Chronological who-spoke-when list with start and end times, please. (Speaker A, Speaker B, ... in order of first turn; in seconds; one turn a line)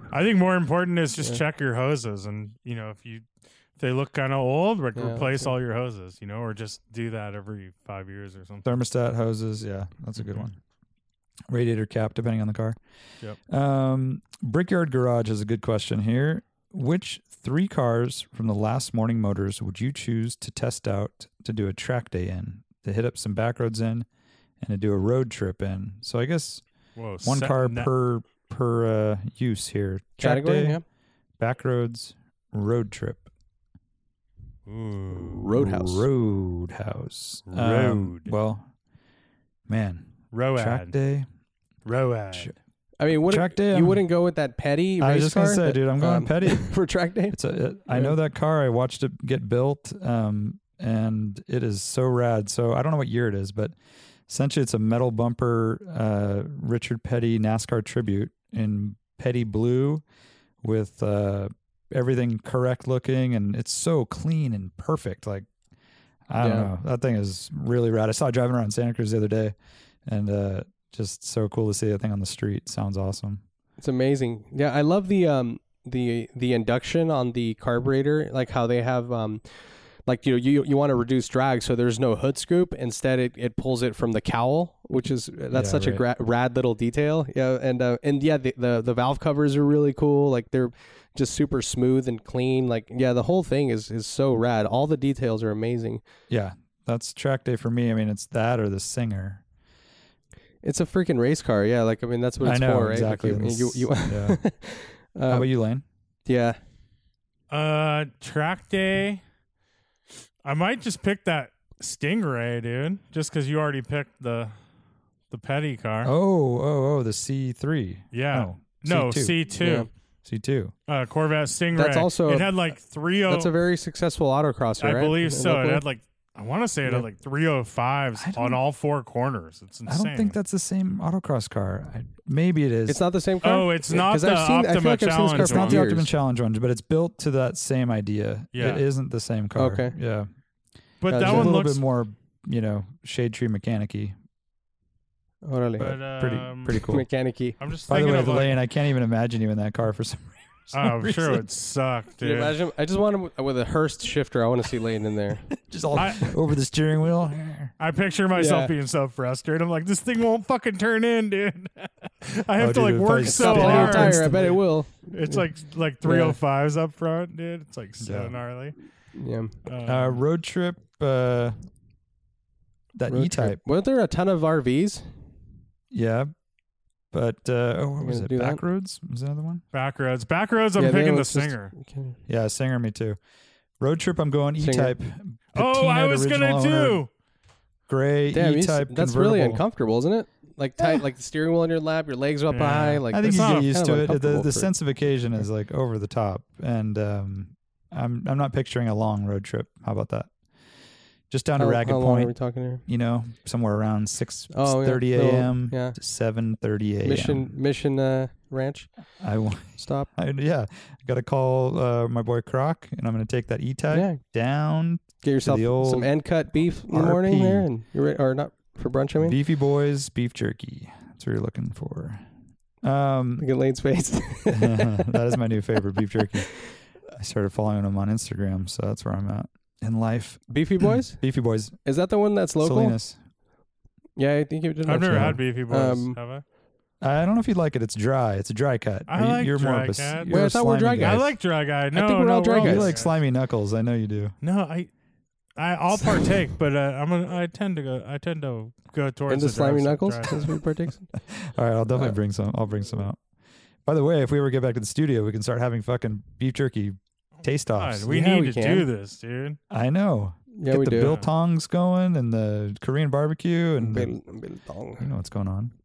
Speaker A: 0.1-8.6
Speaker B: 5.0-5.5
Speaker C: 8.6-10.6
Speaker A: 10.2-10.4
Speaker C: 11.5-12.8
Speaker C: 13.5-24.1
Speaker C: 24.6-26.6
Speaker A: 26.9-27.9
Speaker C: 27.2-30.8
Speaker B: 30.2-30.8
Speaker C: 31.4-33.3
Speaker A: 34.6-35.5
Speaker B: 35.1-36.0
Speaker C: 35.5-38.7
Speaker A: 37.5-38.3
Speaker C: 39.7-41.3
Speaker A: 40.3-40.9
Speaker A: 41.8-42.5
Speaker B: 43.0-47.4
Speaker C: 43.3-44.0
Speaker C: 45.0-46.7
Speaker C: 47.3-53.8
Speaker B: 47.9-48.1
Speaker C: 54.3-60.0
Speaker C: 60.6-65.5
Speaker C: 66.3-73.4
Speaker B: 66.4-66.7
Speaker B: 73.8-96.0
Speaker C: 85.5-86.0
Speaker C: 96.3-99.4
Speaker B: 100.6-105.5
Speaker C: 102.4-104.4
Speaker C: 105.3-105.8
Speaker B: 106.2-106.6
Speaker A: 107.5-109.2
Speaker A: 110.4-114.5
Speaker A: 115.3-116.1
Speaker C: 116.0-119.4
Speaker A: 118.1-119.9
Speaker B: 119.6-119.9
Speaker C: 120.2-120.7
Speaker A: 120.9-123.5
Speaker B: 121.7-122.6
Speaker B: 123.3-125.8
Speaker A: 124.8-130.3
Speaker C: 128.2-128.6
Speaker C: 129.9-133.0
Speaker B: 132.9-136.1
Speaker A: 133.4-135.8
Speaker C: 135.3-140.3
Speaker A: 138.5-138.8
Speaker B: 139.6-139.9
Speaker A: 141.0-141.8
Speaker B: 141.1-141.5
Speaker C: 141.1-144.2
Speaker B: 145.4-145.9
Speaker C: 145.8-147.1
Speaker A: 145.8-146.8
Speaker B: 146.9-147.6
Speaker A: 147.6-148.6
Speaker C: 147.9-151.5
Speaker A: 150.7-152.5
Speaker B: 152.2-155.5
Speaker C: 155.5-157.7
Speaker A: 155.9-156.3
Speaker A: 157.8-168.8
Speaker B: 158.3-158.7
Speaker C: 162.6-164.6
Speaker B: 163.2-165.4
Speaker B: 166.0-166.4
Speaker C: 168.0-168.3
Speaker B: 169.1-169.6
Speaker A: 169.6-170.2
Speaker C: 169.8-171.6
Speaker C: 172.9-173.6
Speaker B: 173.1-175.1
Speaker C: 175.9-176.3
Speaker C: 177.1-179.6
Speaker B: 178.0-178.6
Speaker A: 179.7-181.7
Speaker B: 180.8-182.2
Speaker C: 182.3-183.2
Speaker C: 183.8-187.0
Speaker B: 184.6-184.9
Speaker A: 185.5-187.1
Speaker C: 187.9-189.6
Speaker B: 188.3-194.7
Speaker A: 192.5-193.7
Speaker C: 193.1-200.3
Speaker C: 201.3-202.3
Speaker B: 201.6-202.8
Speaker C: 202.8-207.5
Speaker B: 204.5-205.9
Speaker B: 207.0-208.9
Speaker C: 209.2-216.1
Speaker B: 209.8-210.1
Speaker B: 213.9-214.2
Speaker B: 215.2-219.4
Speaker C: 216.9-217.7
Speaker C: 219.2-222.2
Speaker C: 222.8-223.5
Speaker B: 223.4-225.2
Speaker C: 224.5-226.6
Speaker C: 227.1-231.8
Speaker B: 230.5-231.2
Speaker B: 231.8-233.0
Speaker C: 232.6-233.2
Speaker B: 234.2-236.2
Speaker A: 234.8-236.4
Speaker C: 235.1-235.4
Speaker C: 237.0-241.3
Speaker A: 239.1-240.5
Speaker B: 240.3-241.3
Speaker A: 241.0-243.1
Speaker B: 241.9-242.9
Speaker C: 242.6-244.3
Speaker A: 244.4-244.9
Speaker A: 245.6-250.5
Speaker B: 249.3-251.1
Speaker C: 251.3-253.2
Speaker C: 253.8-258.1
Speaker A: 257.7-259.6
Speaker B: 258.1-258.9
Speaker C: 259.7-264.1
Speaker B: 260.6-261.2
Speaker A: 261.0-261.3
Speaker B: 263.8-265.1
Speaker C: 265.0-265.7